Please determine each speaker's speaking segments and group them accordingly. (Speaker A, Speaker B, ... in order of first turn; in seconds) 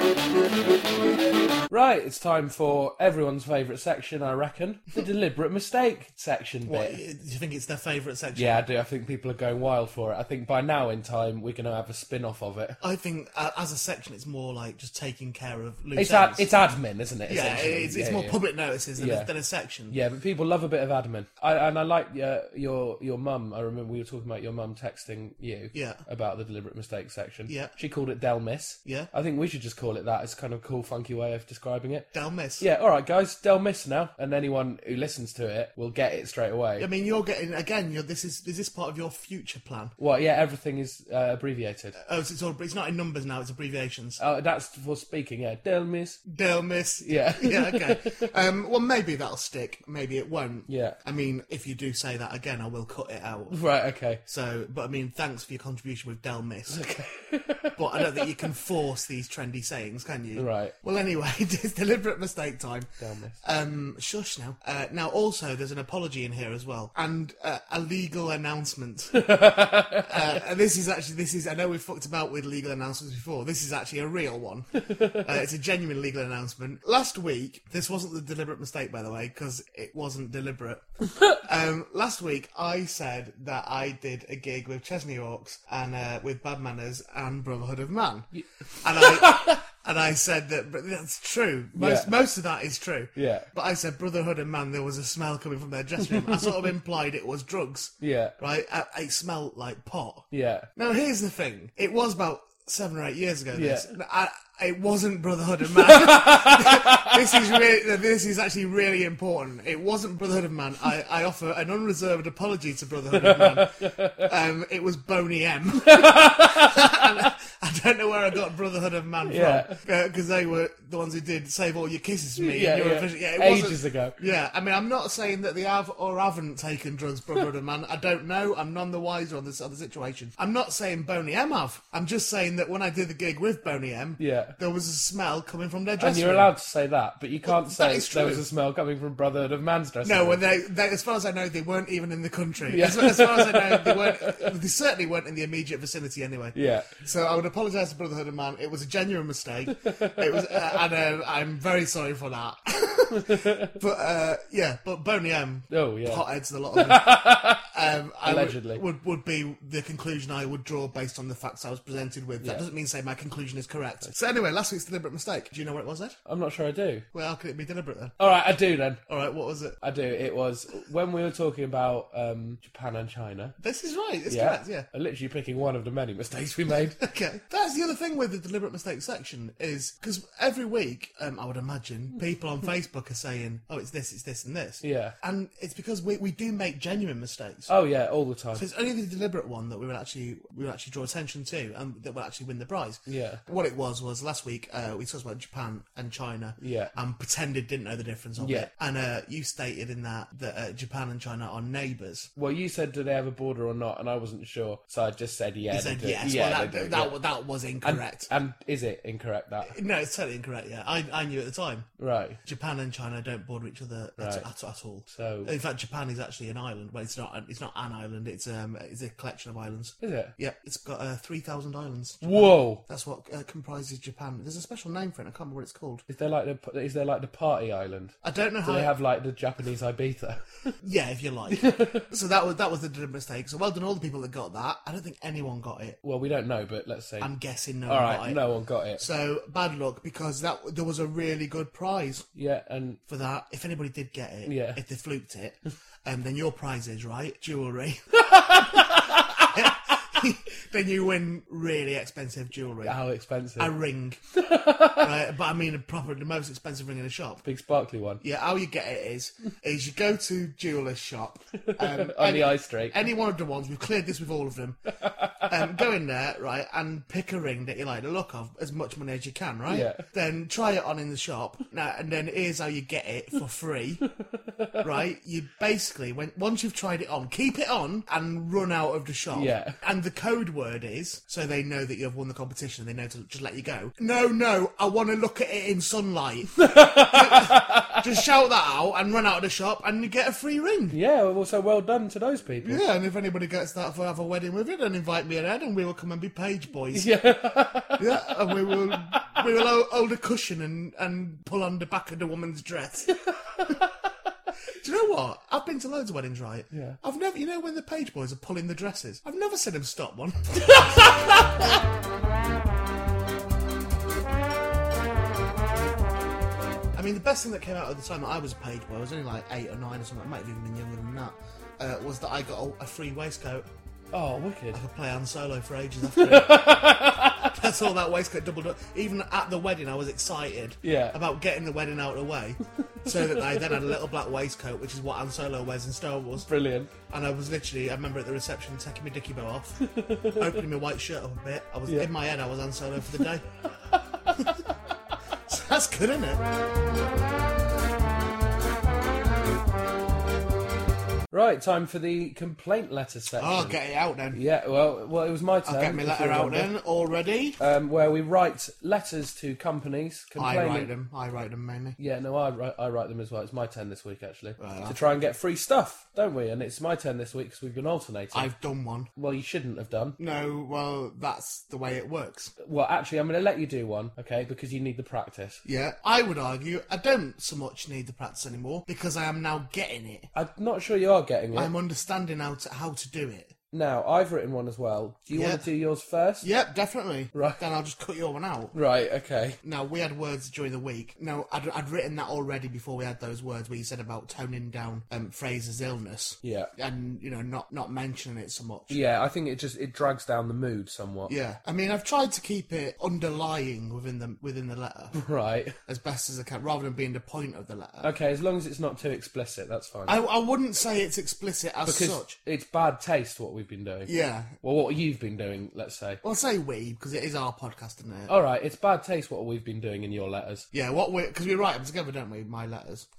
Speaker A: 1.7-7.0, 8.3-12.8, 16.0-18.4, 19.0-19.3, 19.9-32.1, 32.6-36.9, 40.0-42.0, 44.2-46.2, 47.0-48.3, 50.7-51.0, 53.5-54.2, 56.7-58.3, 60.4-60.7, 63.0-63.4, 69.1-70.4, 74.8-75.2, 88.3-89.6, 91.8-92.1, 93.2-93.5, 96.1-96.5, 98.0-98.3, 100.3-100.7, 103.5-103.9, 105.7-107.5, 113.1-114.3, 115.8-117.3, 119.3-119.8, 122.4-124.2, 134.2-134.6, 136.0-140.4, 142.7-144.5, 146.5-147.0, 149.7-150.8, 153.1-153.8, 155.7-157.7, 158.2-158.8, 166.2-167.0, 168.2-169.0, 169.8-173.5, 174.3-177.0, 184.8-185.2, 187.7-188.7, 193.1-193.4, 196.6-196.9, 198.4-198.7, 202.3-207.2, 207.8-209.8, 212.0-212.4, 214.2-214.5, 215.1-215.5, 220.0-220.3, 222.2-222.8, 226.1-230.7, 231.5-232.1, 236.0-237.3, 237.9-239.0, 242.3-243.0, 244.4-244.8, 248.2-249.7, 252.8-253.7, 254.3-255.1, 257.4-258.2, 261.6-263.0, 265.0-265.5, 269.7-270.0, 274.1-274.9, 279.3-279.8, 286.6-288.1, 290.9-292.8, 296.9-299.4, 303.2-303.9, 306.7-307.0, 310.7-311.7, 324.1-324.8, 326.1-327.6, 330.8-331.2, 333.0-333.7, 336.4-336.9, 339.8-340.6, 343.9-344.7, 351.3-353.8, 354.3-356.7, 357.6-360.9, 362.0-368.5, 369.1-370.2, 372.6-375.6, 380.3-381.7, 383.7-386.5, 387.3-387.6, 388.7-389.6, 396.4-396.7, 398.9-401.3, 405.1-405.8, 408.0-410.2, 411.9-416.2, 418.3-420.7
Speaker B: 6.7-8.6, 12.8-16.5, 17.3-20.0, 25.7-26.0, 27.5-27.7, 28.9-29.1, 32.1-32.6, 36.8-40.0, 42.0-44.2, 46.2-53.6, 54.2-56.8, 57.8-62.9, 63.4-69.2, 70.0-88.3, 88.8-136.5, 137.4-138.4, 140.0-166.2, 167.1-168.2, 169.1-169.8, 173.6-174.8, 177.0-187.7, 188.6-202.3, 205.7-208.3, 209.7-211.9, 212.4-226.0, 228.2-228.9, 230.8-236.0, 237.2-238.4, 239.0-242.2, 243.1-253.0, 253.6-254.2, 255.0-257.4, 258.2-264.8, 265.4-274.0, 274.8-291.0, 292.6-297.1, 298.0-303.1, 304.7-311.1, 316.9-323.7, 324.7-336.5, 337.1-343.4, 345.5-346.4, 353.4-354.4, 355.6-357.6, 360.4-362.0, 364.6-365.0, 368.3-369.1, 370.2-372.5, 375.6-380.3, 381.5-383.5, 385.3-385.6, 386.4-388.8, 389.6-399.0, 401.3-405.1, 405.9-408.1, 410.1-412.4, 414.1-414.6, 416.2-418.3, 420.7-423.1